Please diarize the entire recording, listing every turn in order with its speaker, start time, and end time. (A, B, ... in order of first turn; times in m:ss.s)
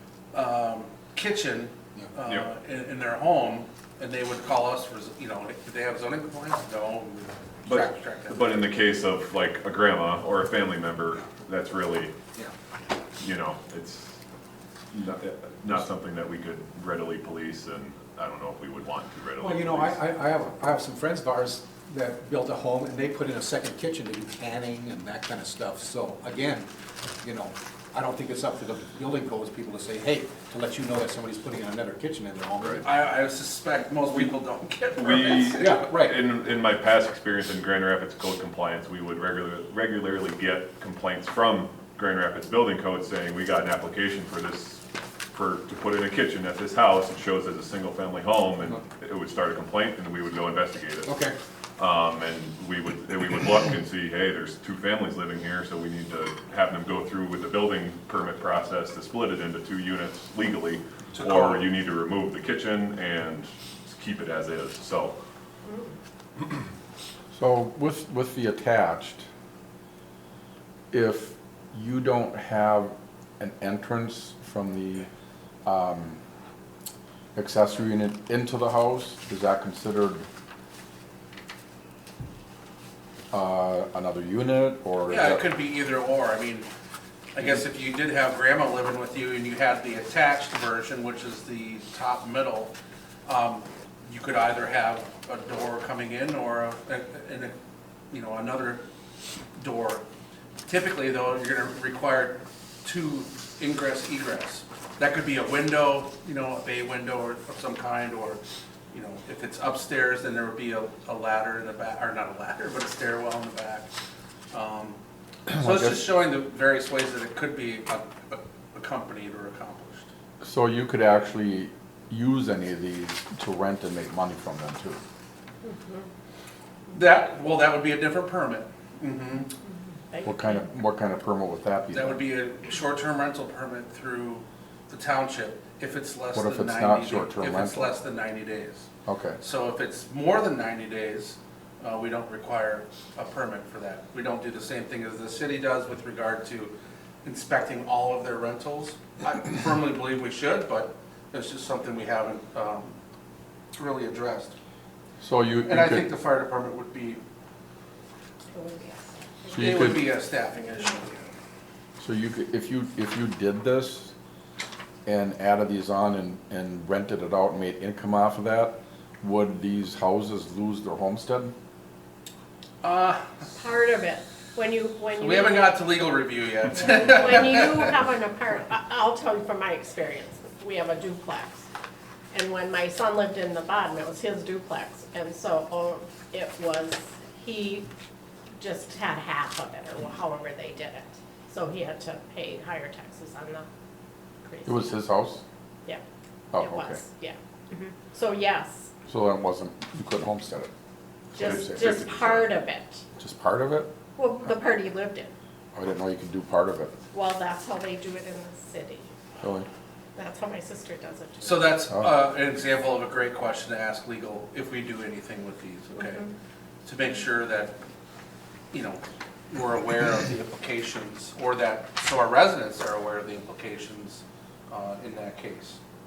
0:00.3-0:08.6 A
0:07.6-0:12.1 B
0:13.2-0:14.2 B
0:14.9-0:20.0 B
0:19.4-0:26.7 C
0:27.2-0:32.9 C
0:32.8-0:35.7 A
0:34.9-0:51.1 B
0:35.6-0:36.2 C
0:51.0-0:51.3 C
0:51.8-1:05.1 B
1:01.1-1:01.6 A
1:05.6-1:05.9 D
1:07.3-1:09.2 E
1:10.9-1:15.1 E
1:15.6-1:16.2 E
1:17.3-1:20.2 E
1:23.3-1:25.4 E
1:25.1-1:26.7 A
1:27.3-1:32.7 A
1:33.2-1:37.5 A
1:38.1-1:38.8 A
1:39.6-1:40.0 A
1:40.7-1:53.9 A
1:54.5-1:55.0 A
1:55.5-1:56.1 E
1:55.6-2:00.1 A
2:00.4-2:05.0 E
2:05.6-2:06.1 D
2:06.9-2:09.5 A
2:09.6-2:10.6 D
2:10.2-2:12.2 E
2:11.9-2:18.9 A
2:16.3-2:17.9 E
2:19.0-2:19.4 E
2:19.4-2:26.7 A
2:27.2-2:32.9 A
2:33.7-2:34.6 A
2:35.2-2:36.1 E
2:35.7-2:37.2 A
2:38.5-2:39.8 D
2:39.5-2:40.0 E
2:39.5-2:41.3 A
2:42.0-2:44.1 E
2:45.0-2:51.5 E
2:52.8-2:53.4 A
2:53.5-2:55.9 D
2:55.2-2:57.8 A
2:56.7-3:01.7 D
3:02.3-3:07.9 D
3:08.6-3:13.6 D
3:14.4-3:14.9 D
3:14.6-3:15.4 E
3:16.5-3:17.0 E
3:16.6-3:18.9 D
3:19.0-3:20.7 E
3:21.3-3:22.5 E
3:21.3-3:23.0 D
3:23.2-3:23.9 E
3:24.2-3:25.3 D
3:25.7-3:26.9 E
3:27.1-3:29.1 D
3:29.4-3:29.7 E
3:30.1-3:31.8 D
3:31.4-3:36.2 A
3:31.9-3:32.1 E
3:36.0-3:36.3 D
3:36.8-3:37.8 A
3:38.7-3:45.8 A